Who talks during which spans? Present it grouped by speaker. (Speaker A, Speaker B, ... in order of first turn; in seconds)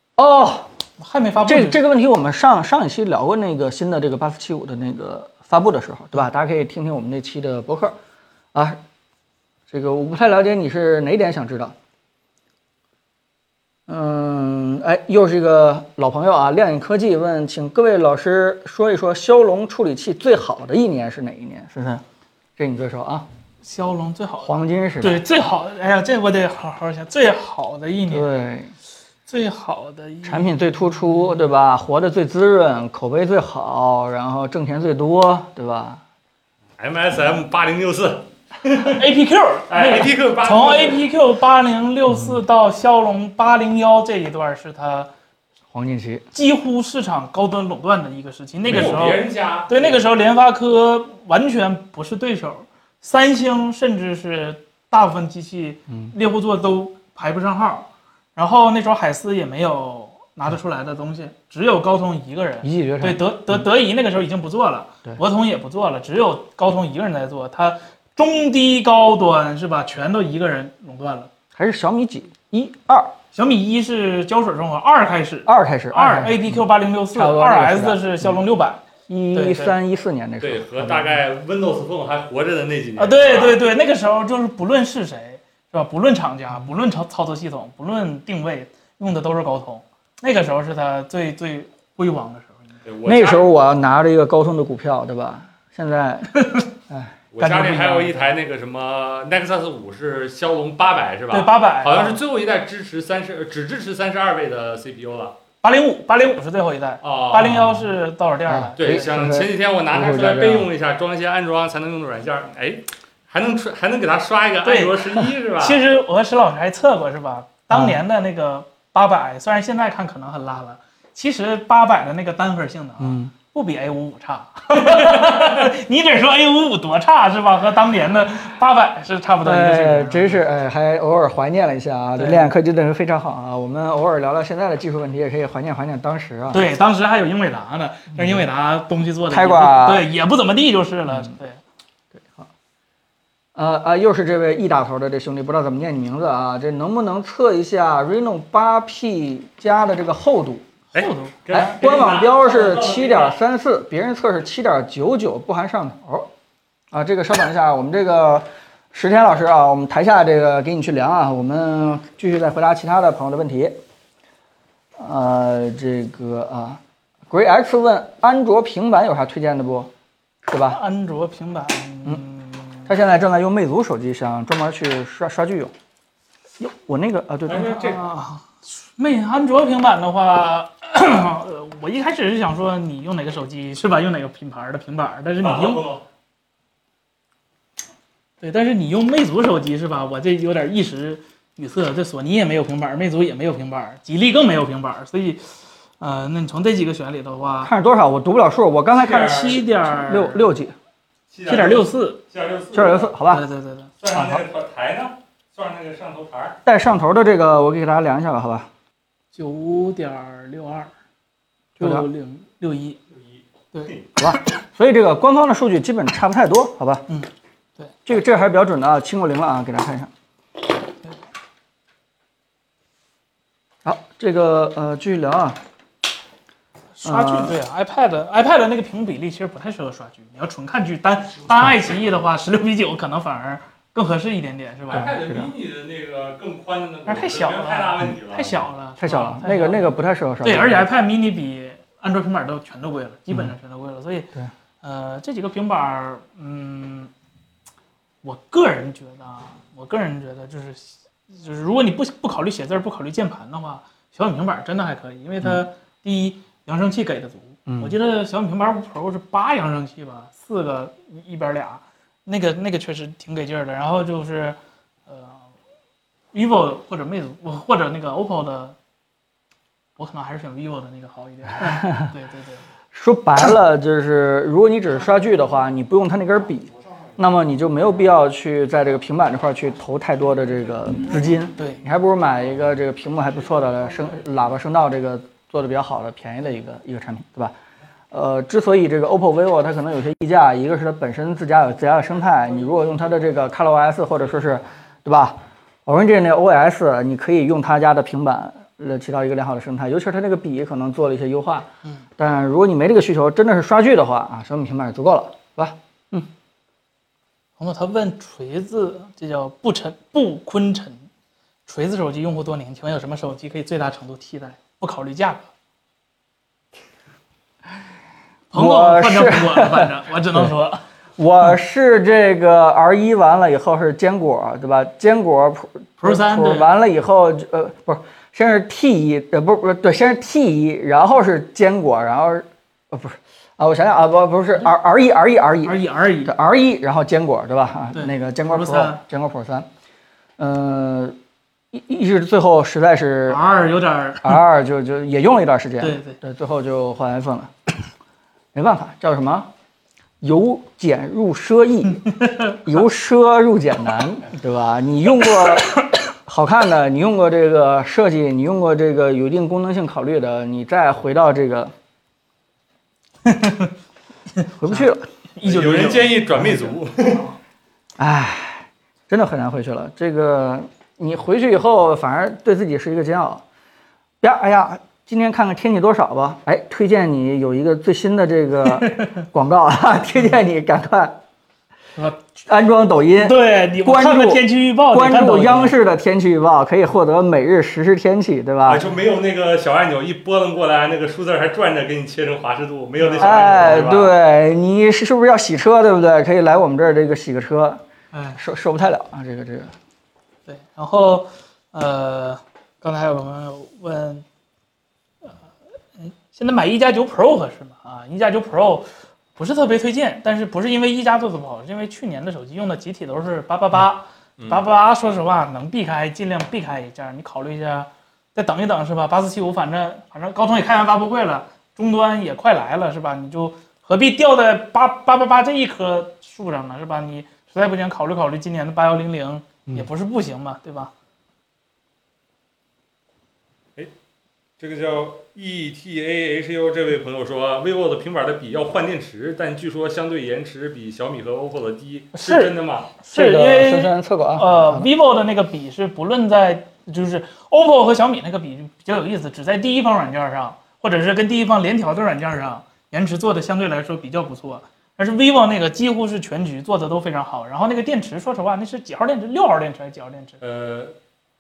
Speaker A: 0.2-0.7, 1.4-8.0, 8.5-8.8, 9.7-11.8, 13.9-22.0, 22.6-23.3, 24.4-25.2, 28.1-28.7, 30.2-36.0, 42.1-42.4, 45.7-46.2, 55.9-56.1, 62.6-63.7, 71.5-73.2, 75.5-76.6, 77.1-78.4, 79.1-81.2, 93.0-98.1, 107.4-107.9, 108.5-110.7, 117.7-118.0, 123.0-123.3, 129.4-136.6, 138.2-138.4, 139.3-140.1, 142.2-142.5, 143.6-150.7, 151.5-156.3, 156.9-163.8, 165.0-169.9, 170.5-170.8, 172.9-175.7, 176.6-177.8, 197.6-200.8, 202.7-203.4, 204.1-204.4, 206.7-208.7, 211.8-212.1, 214.2-217.1, 218.1-220.1, 223.8-225.6, 227.0-227.6, 234.9-235.5, 239.0-240.9, 257.7-257.9, 271.7-272.1, 272.9-287.6, 288.1-306.3, 318.5-320.5, 321.2-339.7, 340.4-341.2, 341.7-343.4, 344.2-347.5, 348.5-349.5, 350.2-361.7, 364.6-365.1, 368.0-373.4, 374.2-381.2, 382.5-388.8, 393.2-397.8, 398.4-399.7, 443.1-444.9
Speaker B: 1.0-1.8, 23.6-28.3, 29.3-30.5, 38.9-45.1, 46.3-71.3, 73.3-79.7, 83.0-92.7, 97.5-98.0, 101.3-102.2, 105.6-109.2, 114.6-130.4, 132.2-132.5, 136.5-141.6, 151.0-151.8, 170.7-172.9, 177.5-185.8, 188.4-195.4, 196.0-197.7, 199.0-200.5, 201.5-202.2, 203.3-203.9, 209.3-210.9, 211.8-213.0, 213.7-214.0, 227.0-235.1, 237.1-239.9, 240.4-244.3, 244.8-247.1, 248.2-265.4, 266.3-268.8, 270.0-272.6, 307.6-311.1, 311.7-315.5, 318.5-320.8, 326.0-326.7, 335.6-336.3, 337.9-339.0, 343.3-344.4, 345.8-346.2, 352.1-352.6, 363.2-363.7, 364.4-366.6, 378.7-379.2, 382.0-382.4, 383.2-385.8, 393.0-393.9, 398.1-398.4, 400.5-404.2, 406.0-430.9, 442.1-460.4
Speaker C: 36.8-39.0, 39.7-41.0, 48.7-50.0, 80.4-83.6, 92.9-93.5, 97.3-105.4, 107.0-107.6, 108.8-115.8, 150.9-153.4, 177.5-178.0, 185.4-186.0, 199.1-199.6, 201.3-203.1, 204.0-206.6, 213.1-214.0, 234.9-238.5, 365.4-367.2, 388.7-394.1, 414.4-414.6, 434.6-442.9, 460.4-460.9